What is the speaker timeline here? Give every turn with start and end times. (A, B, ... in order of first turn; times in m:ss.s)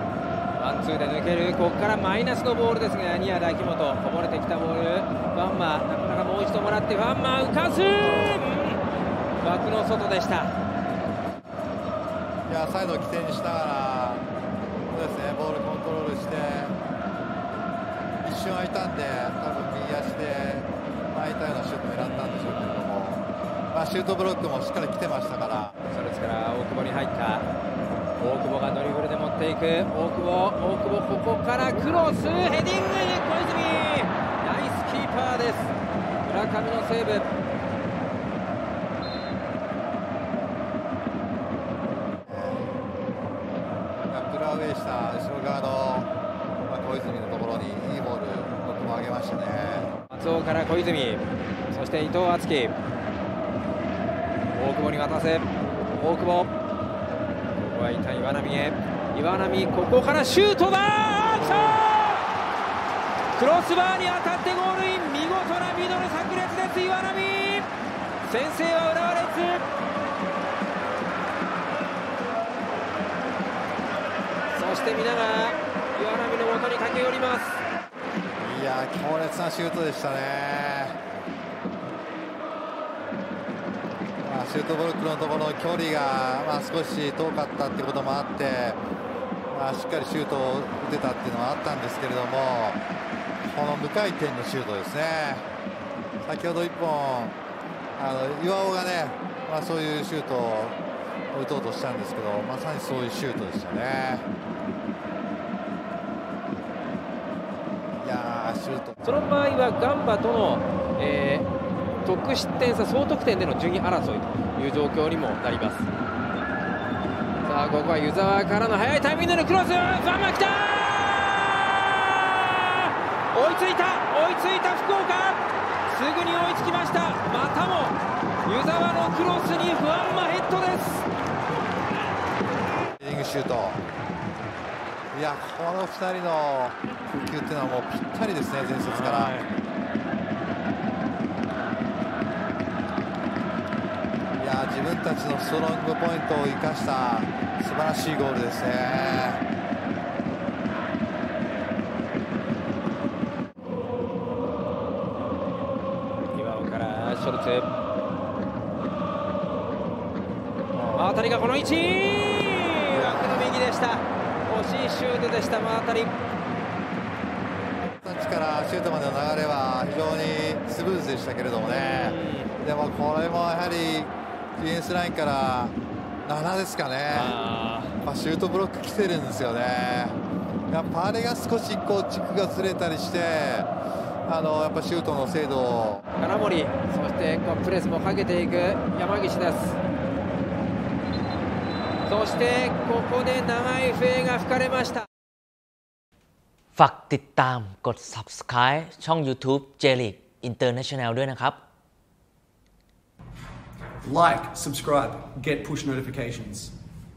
0:00.6-0:08.8 A
0:09.4-0:10.6 A
0:12.5-0:14.3 B
0:14.9-0:16.8 B
0:18.2-0:25.8 B
0:22.0-0:22.7 A
0:25.9-0:27.5 A
0:28.2-0:35.7 A
0:36.2-0:37.3 A
0:42.3-0:42.7 B
0:44.1-0:46.1 B
0:46.7-0:49.9 B
0:50.1-0:52.8 A
0:54.5-0:56.5 A
0:57.6-1:02.3 A
1:03.4-1:07.7 A
1:08.2-1:09.6 A
1:14.5-1:17.6 A
1:18.4-1:21.0 B
1:24.2-1:28.8 B
1:29.5-1:32.8 B
1:33.4-1:35.5 B
1:36.2-1:37.4 B
1:38.0-1:40.8 B
1:41.3-1:44.3 B
1:48.0-1:49.0 B
1:49.0-1:51.5 A
1:52.0-1:55.9 A
1:57.4-2:11.1 A
2:13.0-2:13.8 B
2:15.1-2:19.4 B
2:18.8-2:19.5 A
2:24.4-2:29.4 B
2:36.2-2:37.7 A
2:40.7-2:41.2 B
2:41.0-2:46.1 A
2:42.9-2:43.6 B
2:48.0-2:57.4 B
2:51.6-2:52.5 A
2:57.1-2:58.0 A
2:58.0-3:00.2 B
3:00.7-3:03.7 B
3:04.3-3:06.0 B
3:06.2-3:09.8 A
3:12.1-3:15.1 A
3:16.8-3:21.6 C
3:24.0-3:26.7 D